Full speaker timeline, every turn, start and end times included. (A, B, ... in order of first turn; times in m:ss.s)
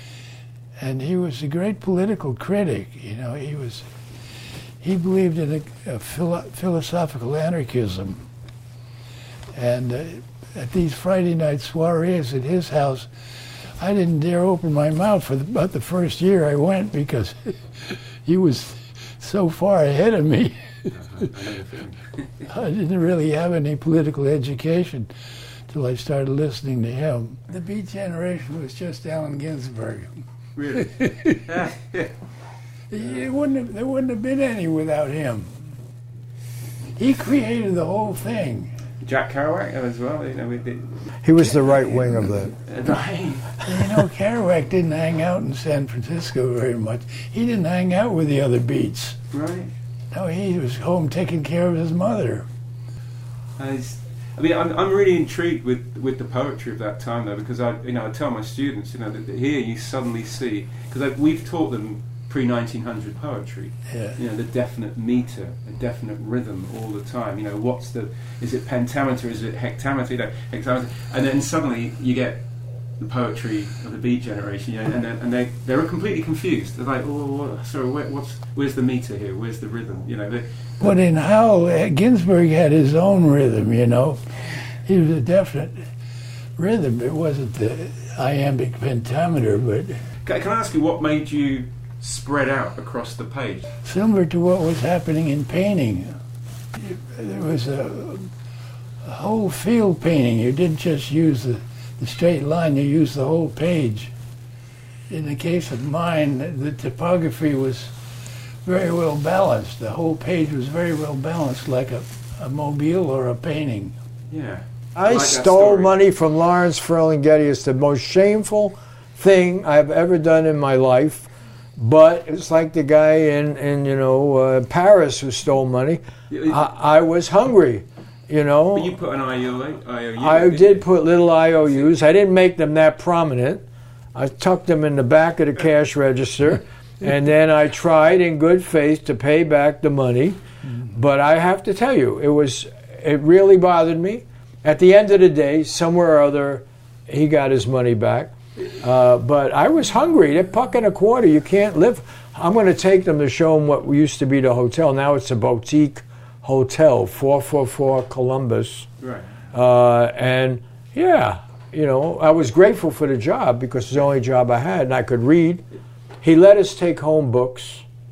0:00.8-0:03.9 A
0:04.8-0:08.2 A
0:09.5-0:13.1 A
0:13.8-0:20.9 A
0:20.9-0:22.4 B
0:22.5-0:25.1 A
0:25.7-0:30.2 A
0:30.6-0:30.9 B
0:30.7-0:31.5 A
0:31.5-0:32.1 B
0:32.9-0:35.5 A
0:37.0-0:38.7 A
0:39.0-0:41.6 B
0:41.2-0:42.5 C
0:42.4-0:43.6 B
0:43.6-0:49.2 A
0:49.3-0:49.7 B
0:50.1-0:52.5 A
0:53.6-1:12.4 B
1:13.0-1:20.9 B
1:20.8-1:24.2 A
1:24.8-1:25.8 A
1:26.6-1:30.0 A
1:30.2-1:33.7 B
1:33.8-1:36.1 A
1:36.8-1:38.3 A
1:39.0-1:44.1 A
1:45.1-1:47.9 A
1:48.6-1:53.9 A
1:54.3-1:56.0 B
1:55.0-2:09.0 C
2:06.3-2:06.6 B
2:08.7-2:11.9 B
2:10.2-2:38.9 C
2:39.0-2:39.2 B
2:39.5-2:45.6 C
2:46.2-2:47.8 C